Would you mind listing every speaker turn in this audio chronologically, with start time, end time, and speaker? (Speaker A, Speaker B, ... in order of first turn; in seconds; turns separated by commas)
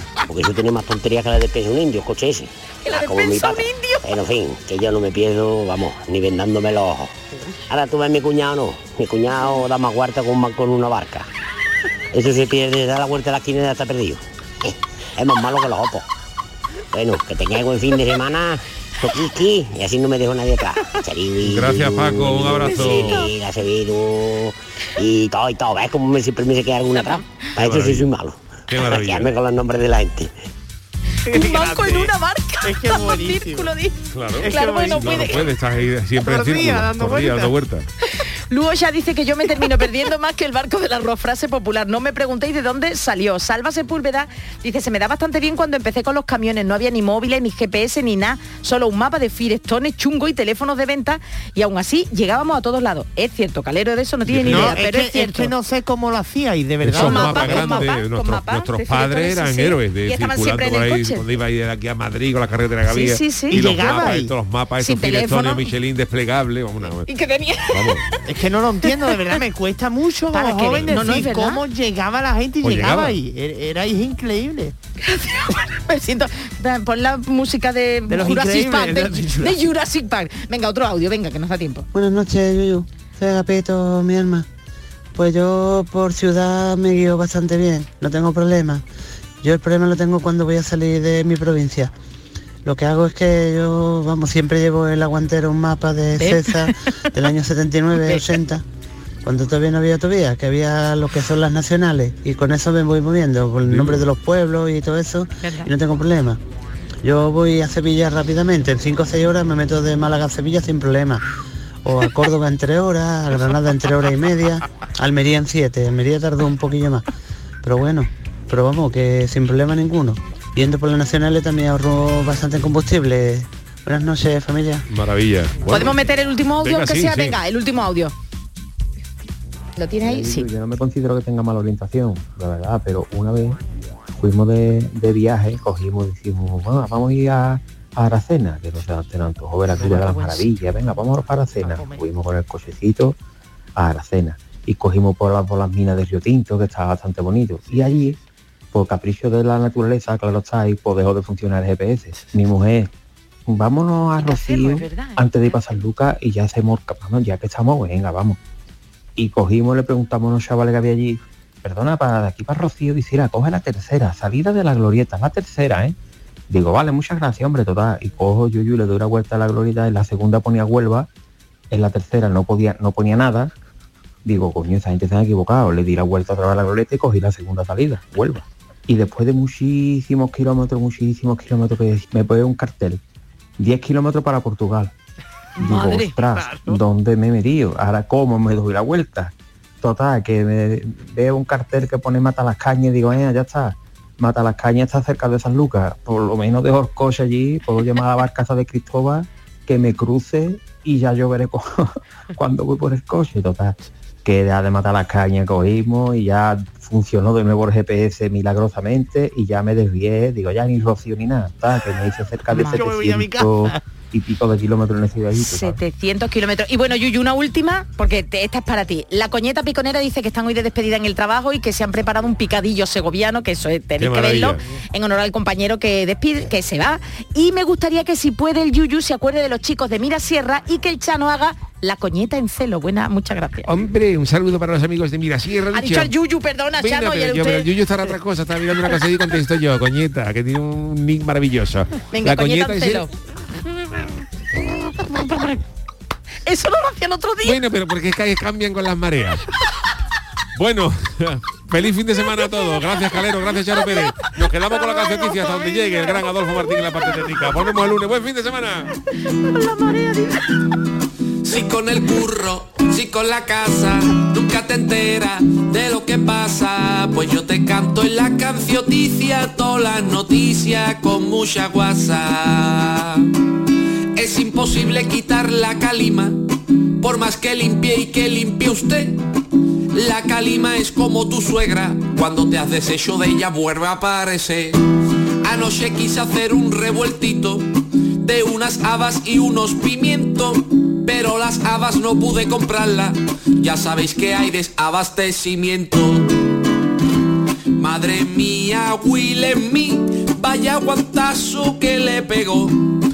Speaker A: 0.3-7.1, Speaker B: 2.8-4.1, Speaker A: 7.7-11.3, Speaker A: 12.1-16.0, Speaker A: 16.9-30.3, Speaker C: 21.4-23.2, Speaker B: 22.6-23.3, Speaker B: 26.9-27.3, Speaker C: 27.6-28.1, Speaker C: 28.7-29.3, Speaker D: 31.2-32.1, Speaker B: 31.3-35.5, Speaker D: 32.6-33.7, Speaker C: 34.1-37.9, Speaker D: 34.4-35.5, Speaker D: 36.2-37.5, Speaker B: 38.1-55.5, Speaker C: 54.3-54.8, Speaker D: 54.5-57.9, Speaker C: 56.8-67.1, Speaker B: 56.9-61.3, Speaker B: 62.9-64.1, Speaker D: 63.5-64.3, Speaker B: 64.8-65.7, Speaker B: 67.0-68.2, Speaker C: 67.7-68.1, Speaker D: 68.2-74.7, Speaker B: 70.3-71.6, Speaker C: 70.7-71.2, Speaker C: 72.6-73.2, Speaker B: 75.0-81.8, Speaker D: 78.1-79.6, Speaker E: 81.9-84.5, Speaker E: 85.1-88.8, Speaker E: 89.4-91.9, Speaker E: 92.6-98.6, Speaker B: 96.2-97.0, Speaker E: 99.2-106.4, Speaker C: 103.6-104.0, Speaker B: 105.4-105.7, Speaker E: 107.0-111.2, Speaker E: 111.8-117.0, Speaker E: 117.6-124.9, Speaker C: 124.9-126.0, Speaker B: 125.7-128.1, Speaker C: 126.6-127.4, Speaker B: 129.8-130.5, Speaker F: 130.0-133.6, Speaker F: 134.1-143.2, Speaker B: 139.8-140.5, Speaker B: 141.7-142.0, Speaker F: 143.8-148.2, Speaker F: 148.7-152.9, Speaker F: 153.5-158.4, Speaker B: 154.2-155.6, Speaker F: 159.2-165.9, Speaker F: 166.5-171.1, Speaker F: 171.7-173.5, Speaker F: 174.2-183.0, Speaker F: 183.6-184.9, Speaker B: 185.6-186.2, Speaker F: 185.6-215.8, Speaker D: 186.3-186.8, Speaker B: 212.5-212.9, Speaker D: 212.7-213.8, Speaker B: 215.3-233.7, Speaker C: 224.0-224.6, Speaker C: 233.6-236.1, Speaker B: 235.7-237.7, Speaker C: 236.7-243.1, Speaker B: 242.1-243.1, Speaker B: 245.0-245.6, Speaker B: 246.4-247.6, Speaker C: 247.4-249.4, Speaker C: 250.5-258.9, Speaker B: 254.7-256.2, Speaker B: 259.4-260.5, Speaker G: 261.4-273.3, Speaker G: 274.1-279.2, Speaker G: 279.9-284.8, Speaker G: 285.4-296.5, Speaker G: 297.7-303.0